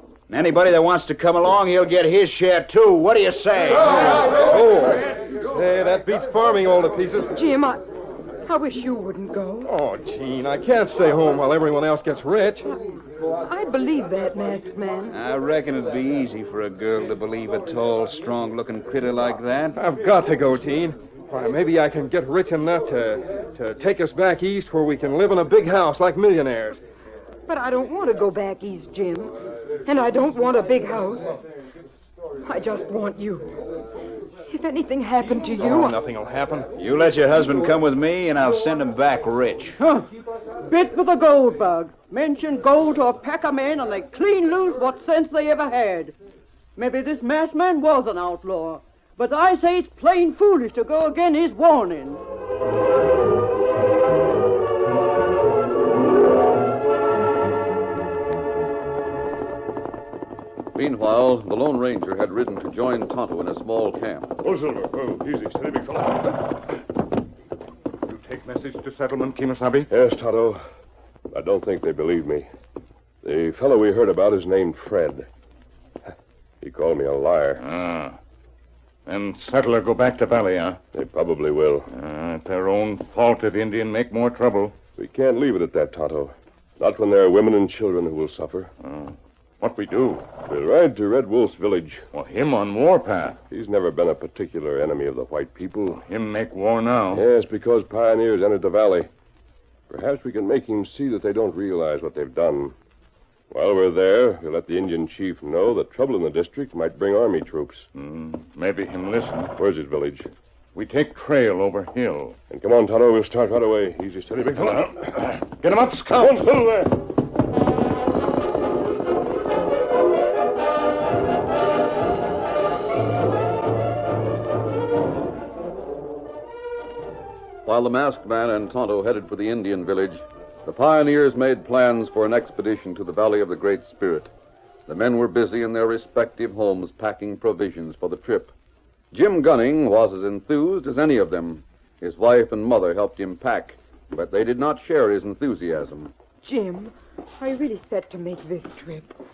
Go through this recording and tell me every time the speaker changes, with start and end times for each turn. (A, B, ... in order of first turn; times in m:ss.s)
0:00.3-0:04.3 A
0:04.0-0:07.4 B
0:07.3-0:07.8 C
0:08.4-0:09.7 C
0:09.6-0:12.7 B
0:13.4-0:15.2 C
0:15.1-0:19.8 A
0:19.8-0:26.8 B
0:27.5-0:29.4 C
0:29.9-0:31.4 C
0:32.4-0:33.5 C
0:34.5-0:36.0 C
0:35.6-0:36.7 B
0:36.8-0:39.8 A
0:39.8-0:40.1 D
0:40.6-0:46.2 D
0:46.8-0:52.2 D
1:00.8-1:04.4 E
1:04.4-1:06.4 F
1:08.1-1:09.9 G
1:09.9-1:10.6 F
1:11.3-1:12.5 F
1:13.2-1:15.3 F
1:16.6-1:17.6 F
1:17.6-1:18.2 G
1:19.1-1:20.8 G
1:20.9-1:21.9 F
1:21.9-1:24.8 G
1:25.0-1:28.7 F
1:28.8-1:30.3 G
1:30.4-1:32.1 F
1:32.1-1:33.4 G
1:33.5-1:36.0 F
1:36.0-1:37.2 G
1:37.1-1:39.1 F
1:39.9-1:42.8 F
1:43.5-1:47.9 F
1:47.9-1:49.5 G
1:49.6-1:50.3 F
1:50.8-1:52.4 G
1:52.5-1:55.4 F
1:55.4-1:56.5 G
1:56.1-1:57.0 F
2:07.7-2:14.3 E
2:14.9-2:18.5 E
2:19.1-2:26.1 E
2:26.4-2:29.2 C